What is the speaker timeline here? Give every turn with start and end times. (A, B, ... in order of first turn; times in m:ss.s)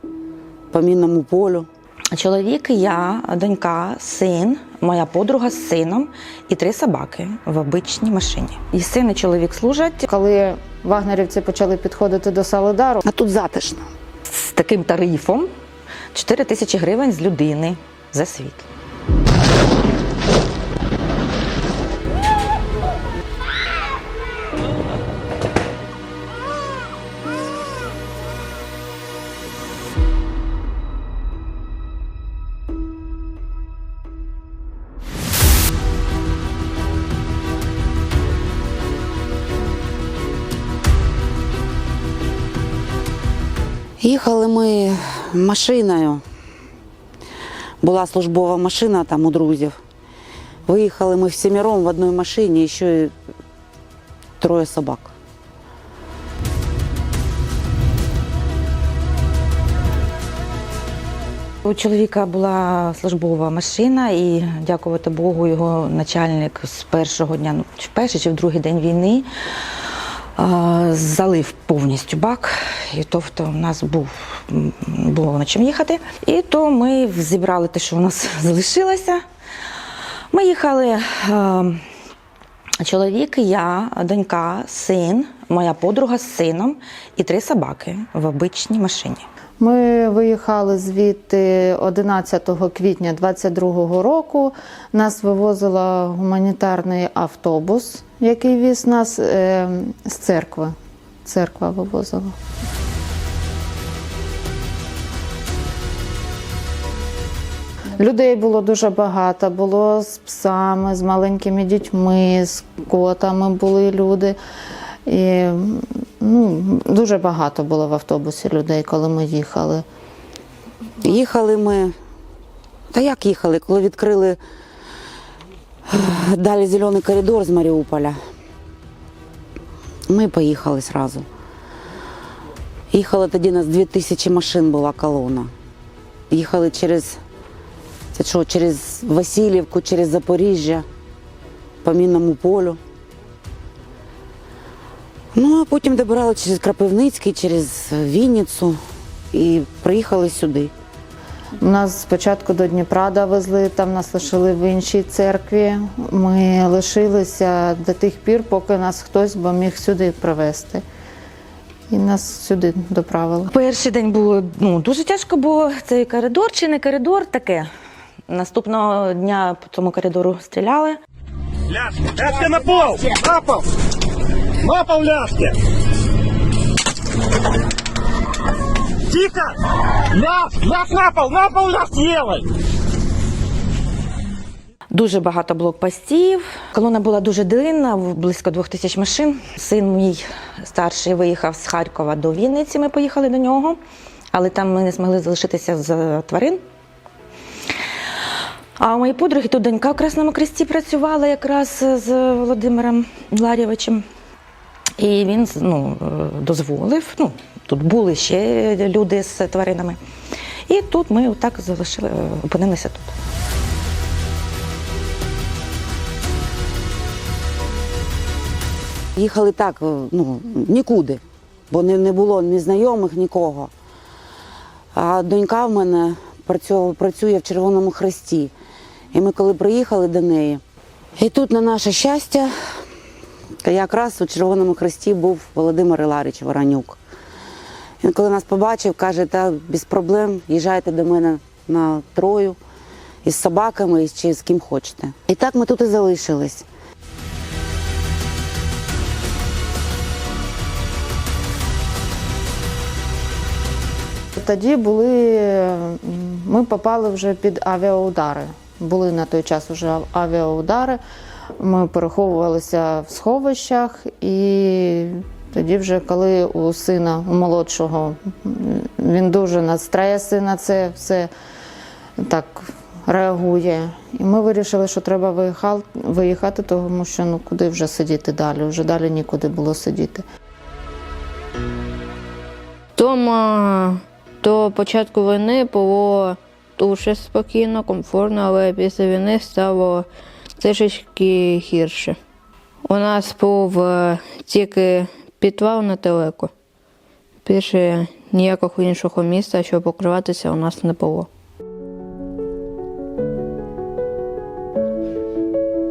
0:00.7-0:01.7 A
0:02.1-0:10.1 B
0:10.1-0:13.0 C
0:13.0-0:13.9 A
0:14.3-0:15.5 B
0:16.1-0:18.6 B
0:44.0-0:46.2 A
0:47.8-0:49.8 A
0:50.7-0:53.1 A
0:54.4-0:55.1 A
1:01.6-1:09.2 B
1:10.4-1:19.2 B
1:20.3-1:21.8 B
1:22.8-1:29.2 B
1:29.6-1:42.3 C
1:48.0-1:54.4 C
1:55.1-1:59.8 C
2:01.0-2:01.9 A
2:02.9-2:04.4 A
2:05.9-2:08.2 A
2:10.1-2:11.2 A
2:12.9-2:15.5 A
2:16.3-2:17.2 A
2:18.1-2:20.8 A
2:21.8-2:22.8 A
2:25.3-2:28.8 A
2:29.3-2:30.7 A
2:31.6-2:40.8 C
2:41.9-2:43.5 C
2:43.5-2:47.7 B
2:48.3-2:51.0 B
2:51.8-2:53.6 D
2:54.6-2:55.5 D
2:59.1-2:59.5 D
3:00.1-3:02.4 D
3:04.9-3:13.8 B
3:14.3-3:16.6 B
3:18.8-3:24.0 B
3:25.0-3:30.0 B
3:30.7-3:33.1 B
3:39.2-3:43.7 A
3:44.9-3:48.5 A
3:49.1-3:50.6 A
3:51.2-3:52.5 A
3:53.6-3:57.0 A
3:58.0-4:02.6 A
4:03.2-4:06.7 A
4:14.4-4:21.0 C
4:21.6-4:31.3 C
4:32.2-4:40.2 C
4:43.0-4:50.1 E
4:50.6-4:52.2 E
4:52.9-4:56.5 E
4:57.4-5:01.3 E